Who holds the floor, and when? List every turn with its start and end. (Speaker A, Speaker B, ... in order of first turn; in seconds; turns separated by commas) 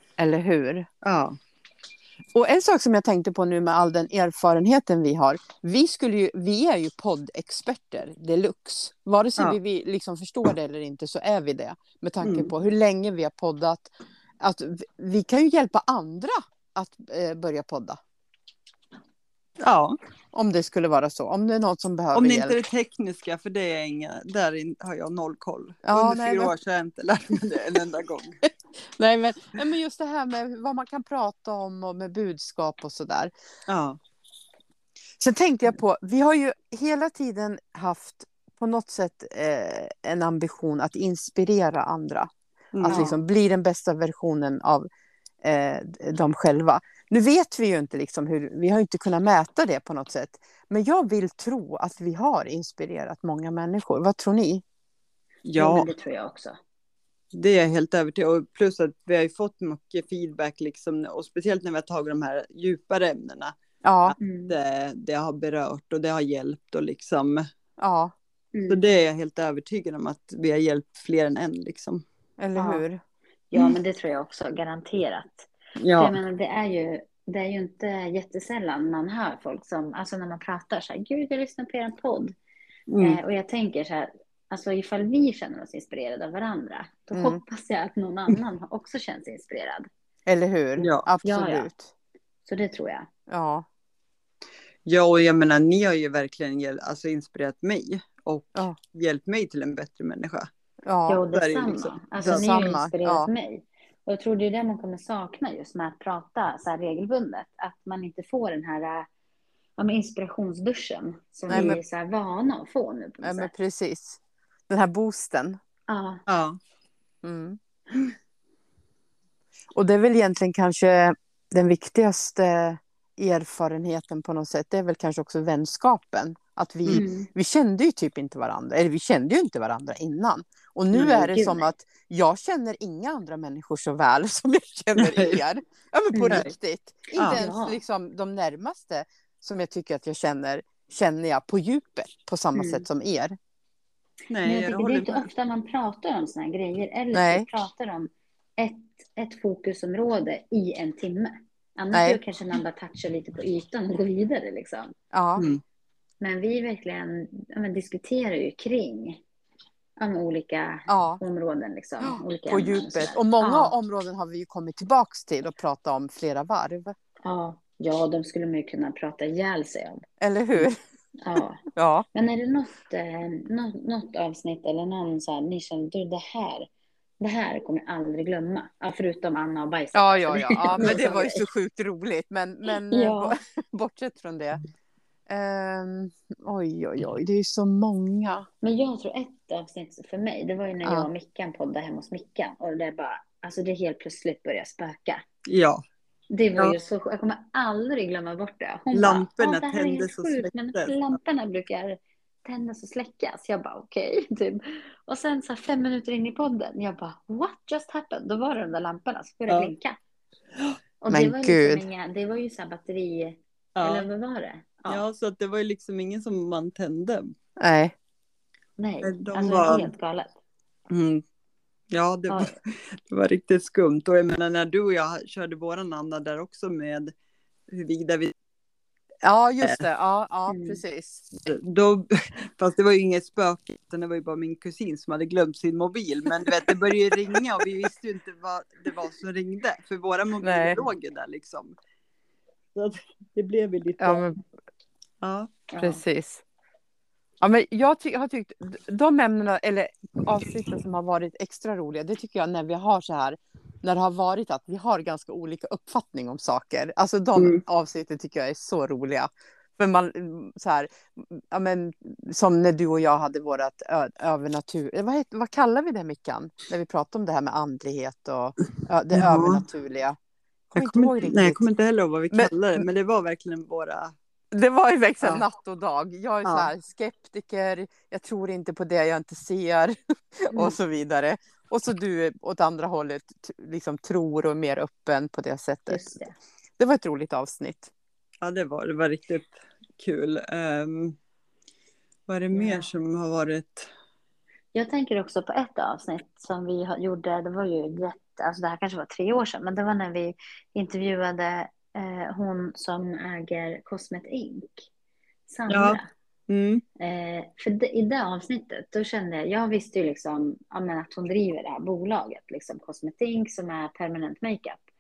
Speaker A: 0.2-0.9, Speaker B: 1.0-1.4, Speaker A: 2.3-13.9, Speaker B: 12.2-12.5, Speaker A: 14.4-18.0, Speaker B: 19.6-20.0, Speaker A: 20.3-22.6, Speaker B: 22.1-28.4, Speaker A: 25.9-26.5, Speaker A: 28.8-33.3, Speaker B: 33.7-34.0, Speaker A: 35.2-44.9, Speaker B: 42.7-43.1, Speaker C: 42.9-43.2, Speaker A: 45.4-54.6, Speaker B: 55.5-55.9, Speaker C: 55.6-56.6, Speaker B: 57.3-63.5, Speaker A: 63.8-64.2, Speaker B: 64.1-67.5, Speaker C: 64.2-64.6, Speaker A: 67.8-68.1, Speaker C: 68.5-68.8, Speaker B: 68.7-72.0, Speaker A: 72.4-73.0, Speaker C: 72.6-72.8, Speaker C: 73.5-82.4, Speaker B: 75.8-76.2, Speaker B: 82.9-83.2, Speaker C: 83.0-89.9, Speaker A: 87.1-87.4, Speaker A: 90.3-91.9, Speaker B: 90.8-91.1, Speaker C: 91.2-91.7, Speaker C: 92.5-93.1, Speaker A: 93.3-93.7, Speaker B: 94.9-100.5, Speaker A: 100.8-101.2, Speaker C: 101.1-109.1, Speaker B: 101.3-102.5, Speaker A: 102.2-103.3, Speaker C: 109.8-113.5, Speaker A: 111.5-111.8, Speaker B: 111.5-111.8, Speaker A: 113.2-115.6, Speaker C: 115.9-116.2, Speaker B: 116.3-116.6, Speaker A: 117.2-117.6, Speaker A: 119.7-143.4, Speaker C: 126.9-127.3, Speaker B: 130.9-131.2, Speaker C: 131.0-131.7, Speaker B: 135.0-135.4, Speaker C: 136.1-136.4, Speaker B: 137.2-137.4, Speaker C: 137.2-137.8, Speaker C: 142.6-142.8, Speaker B: 144.3-145.3, Speaker C: 144.4-154.9, Speaker A: 147.1-147.5, Speaker A: 151.9-152.2, Speaker A: 155.1-155.5, Speaker C: 156.2-159.2, Speaker C: 160.0-163.7, Speaker A: 160.9-161.2, Speaker A: 162.0-166.9, Speaker C: 167.2-171.6, Speaker A: 170.2-170.8, Speaker A: 171.7-172.1, Speaker C: 172.1-176.7, Speaker C: 177.2-181.4, Speaker A: 179.9-184.6, Speaker C: 182.9-183.3, Speaker A: 185.3-188.5, Speaker C: 188.6-195.2, Speaker B: 195.5-195.8, Speaker C: 196.3-210.0, Speaker B: 198.9-201.0, Speaker C: 211.0-215.0, Speaker A: 211.1-211.9, Speaker B: 213.8-214.1, Speaker B: 214.9-217.3, Speaker A: 217.6-217.9, Speaker C: 218.8-220.3, Speaker B: 219.0-219.9, Speaker B: 220.9-221.2, Speaker B: 221.9-227.1, Speaker C: 222.3-222.6, Speaker B: 227.7-228.3, Speaker A: 229.2-231.3, Speaker C: 230.5-230.8, Speaker B: 231.4-241.8, Speaker A: 240.4-240.8, Speaker B: 242.8-244.2, Speaker A: 244.0-244.4, Speaker B: 245.2-245.6, Speaker C: 245.7-246.0, Speaker A: 245.8-246.4, Speaker A: 247.4-270.2, Speaker B: 257.4-257.6, Speaker B: 269.1-269.6, Speaker A: 270.7-271.6, Speaker B: 270.7-274.1, Speaker A: 272.3-272.8, Speaker A: 274.5-286.2, Speaker B: 276.4-276.7, Speaker C: 285.9-286.4, Speaker A: 286.8-287.9, Speaker B: 288.4-291.2, Speaker B: 292.3-293.9, Speaker C: 292.5-292.9, Speaker C: 294.7-304.9, Speaker C: 305.5-306.1, Speaker B: 305.7-306.8, Speaker C: 307.0-314.9